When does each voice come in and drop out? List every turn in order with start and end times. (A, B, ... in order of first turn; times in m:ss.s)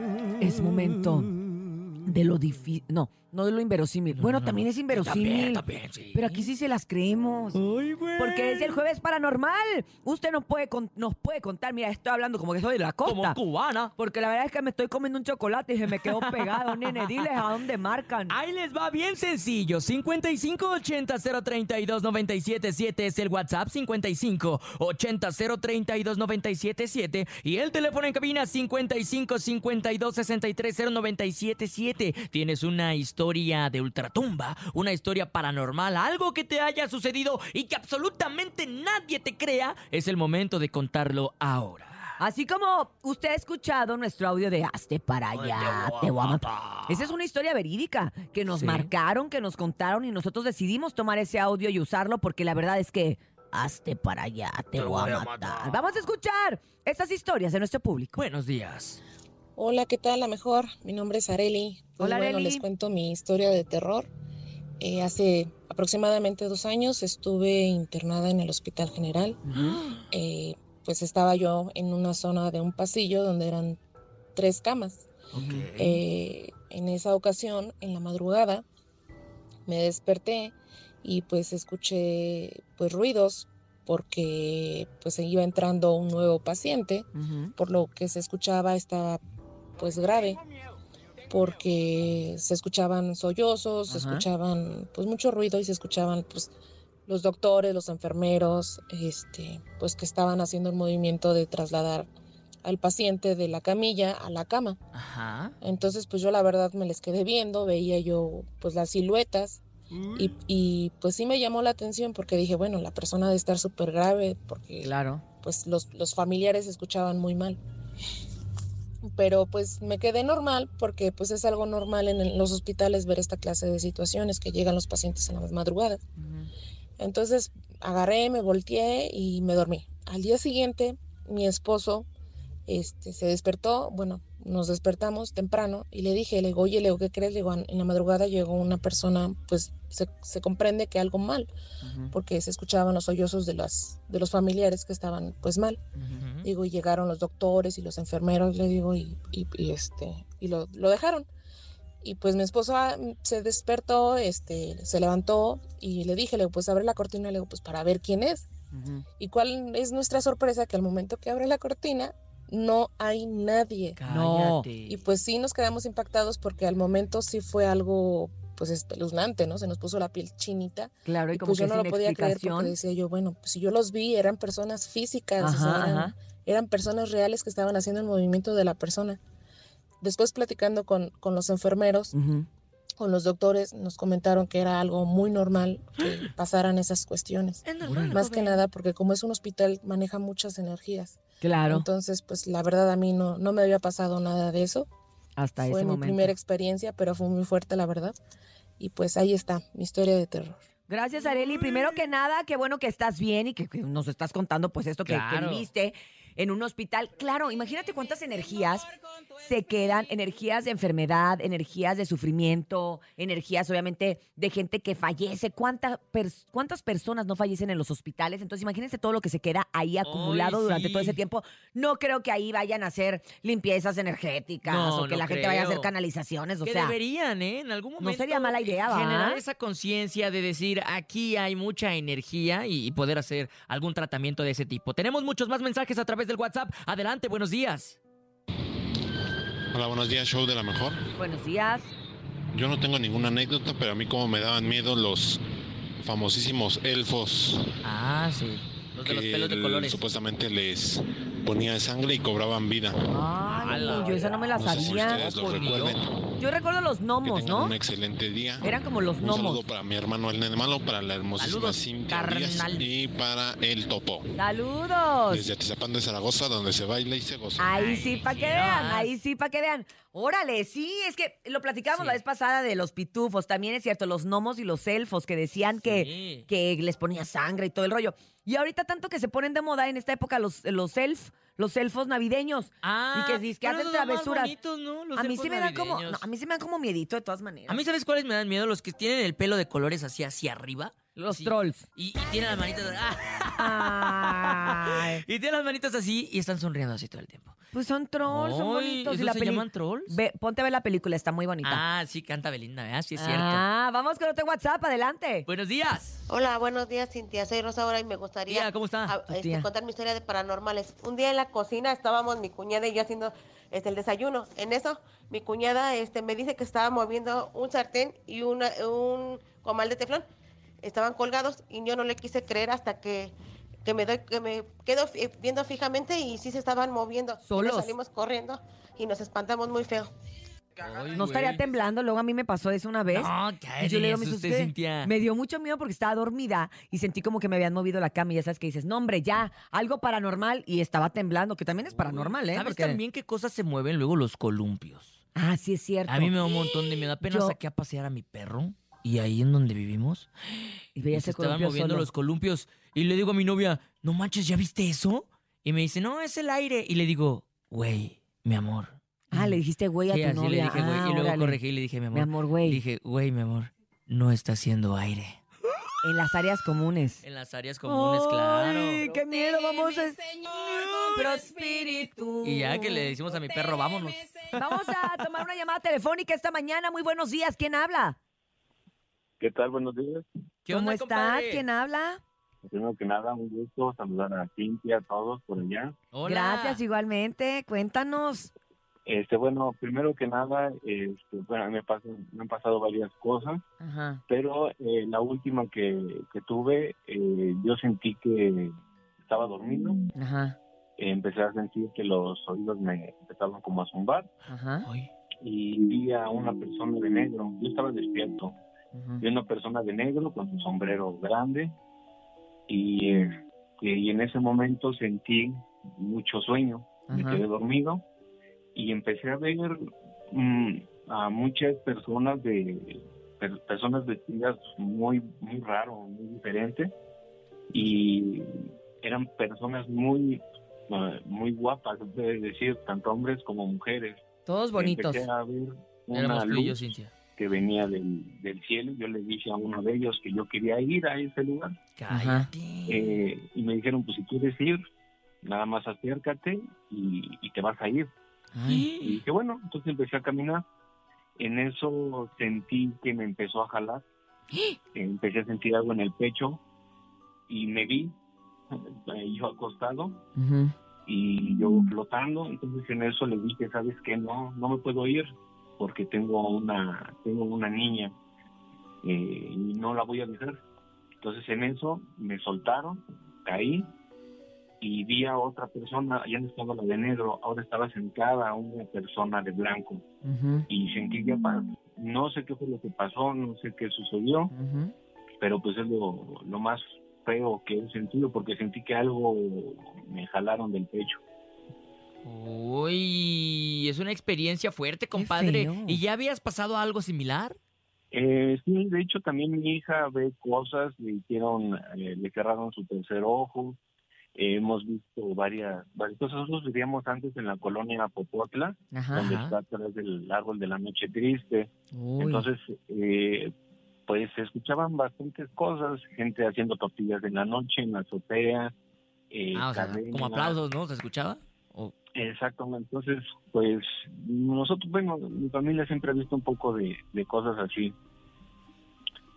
0:00.4-0:01.3 A
0:02.0-0:05.6 A
0:04.2-0:06.5 B
0:06.1-0:07.6 A
0:07.6-0:08.8 B
0:08.2-0:13.4 A
0:13.0-0:13.9 B
0:14.0-0:18.4 A
0:16.0-0:17.3 B
0:18.3-0:42.2 B
0:42.2-0:58.2 A
0:45.6-0:47.0 B
0:48.6-0:48.9 B
0:54.9-0:55.6 B
0:58.2-0:59.0 B
0:59.6-1:04.1 C
1:02.0-1:02.6 A
1:04.8-1:09.4 C
1:09.5-1:09.8 A
1:09.5-1:10.0 B
1:10.1-1:13.8 C
1:14.4-1:15.1 C
1:15.3-1:16.0 B
1:15.4-1:15.7 A
1:15.8-1:18.6 C
1:19.7-1:29.2 C
1:27.2-1:27.5 A
1:29.8-1:30.4 C
1:31.3-1:36.5 C
1:33.9-1:34.3 A
1:37.1-1:42.1 C
1:42.6-1:44.8 C
1:44.9-1:45.5 B
1:45.6-1:49.6 C
1:50.2-1:57.6 C
1:54.8-1:55.2 A
1:59.1-2:06.0 C
2:06.2-2:06.5 A
2:07.0-2:12.1 C
2:12.7-2:21.5 C
2:21.8-2:22.1 A
2:22.1-2:25.8 C
2:26.2-2:26.5 B
2:26.4-2:31.3 C
2:32.0-2:38.5 C
2:38.7-2:39.0 A
2:39.2-2:44.0 C
2:44.0-2:45.0 B
2:44.1-2:44.7 A
2:44.8-2:59.2 C
2:51.1-2:52.8 A
2:55.4-2:56.1 A
3:00.0-3:02.1 C
3:02.1-3:02.5 A
3:03.0-3:14.9 C
3:07.6-3:08.6 B
3:07.9-3:08.3 A
3:11.4-3:11.9 A
3:15.4-3:16.3 A
3:15.6-3:18.2 C
3:18.8-3:20.6 C
3:20.9-3:47.0 A
3:25.1-3:25.7 B
3:40.0-3:41.2 B
3:44.6-3:45.9 B
3:46.6-3:58.0 B
3:48.0-3:49.4 A
3:59.7-4:01.0 D
4:01.2-4:01.9 A
4:02.5-4:05.4 D
4:06.0-4:07.7 D
4:07.8-4:10.0 B
4:09.0-4:13.0 D
4:13.0-4:17.8 A
4:13.6-4:16.0 B
4:14.5-4:16.2 D
4:17.2-4:24.3 D
4:18.6-4:19.7 A
4:21.4-4:22.8 B
4:24.3-4:25.4 A
4:25.3-4:27.6 D
4:27.6-4:44.5 A
4:27.8-4:29.1 B
4:31.9-4:32.2 B
4:35.8-4:36.5 B
4:42.8-4:46.3 B
4:45.2-4:47.8 A
4:47.7-4:57.6 B
4:51.2-4:51.9 A
4:53.6-4:55.2 A
4:57.7-5:01.8 A
4:58.3-5:00.2 B
5:01.6-5:03.6 B
5:03.2-5:05.5 A
5:05.5-5:06.2 B
5:06.3-5:20.3 E
5:08.5-5:09.1 B
5:09.3-5:09.7 A
5:20.8-5:30.1 E
5:27.4-5:28.0 A
5:30.8-5:31.6 B
5:31.2-5:43.0 A
5:33.1-5:35.1 B
5:41.9-5:45.2 B
5:45.4-5:47.6 A
5:46.1-5:50.3 B
5:51.0-5:52.1 A
5:51.1-5:59.6 B
5:59.3-6:01.6 A
6:00.1-6:05.4 B
6:02.1-6:02.8 A
6:06.0-6:07.2 A
6:07.2-6:09.2 B
6:07.9-6:10.4 A
6:10.5-6:11.4 B
6:11.1-6:13.2 A
6:12.4-6:14.6 B
6:14.5-6:18.2 A
6:19.4-6:20.2 F
6:20.6-6:21.6 B
6:20.7-6:22.2 A
6:22.6-6:25.9 F
6:26.1-6:26.8 B
6:26.2-6:28.5 A
6:29.1-6:33.6 F
6:33.8-6:34.2 A
6:34.3-6:40.0 F
6:40.1-6:40.6 A
6:41.0-6:44.3 F
6:44.5-6:44.9 A
6:44.8-6:45.1 B
6:45.4-6:48.6 F
6:49.0-6:49.2 A
6:49.2-6:51.7 F
6:52.7-6:58.0 F
6:57.1-6:57.4 A
6:58.8-6:59.7 F
7:00.3-7:06.9 F
7:07.7-7:14.2 F
7:14.5-7:15.3 A
7:14.8-7:16.8 F
7:16.1-7:17.1 B
7:17.4-7:21.7 F
7:22.0-7:23.2 B
7:22.1-7:22.5 A
7:22.9-7:24.8 F
7:25.4-7:28.1 F
7:28.5-7:28.9 A
7:28.7-7:29.2 B
7:29.0-7:30.6 F
7:31.4-7:34.0 F
7:35.0-7:36.6 F
7:37.5-7:38.2 F
7:39.1-7:40.2 F
7:40.4-7:40.7 A
7:41.1-7:48.1 F
7:49.0-7:50.6 F
7:51.2-7:53.9 F
7:54.8-8:00.0 F
8:00.2-8:00.7 A
8:00.7-8:04.5 F
8:04.5-8:04.9 A
8:05.4-8:11.2 F
8:12.2-8:17.6 B
8:15.2-8:16.0 A
8:18.1-8:23.8 F
8:24.4-8:33.5 F
8:28.9-8:29.3 A
8:29.2-8:29.6 B
8:31.9-8:32.5 A
8:34.1-8:38.7 F
8:39.3-8:40.6 F
8:39.6-8:41.9 B
8:42.2-8:48.0 F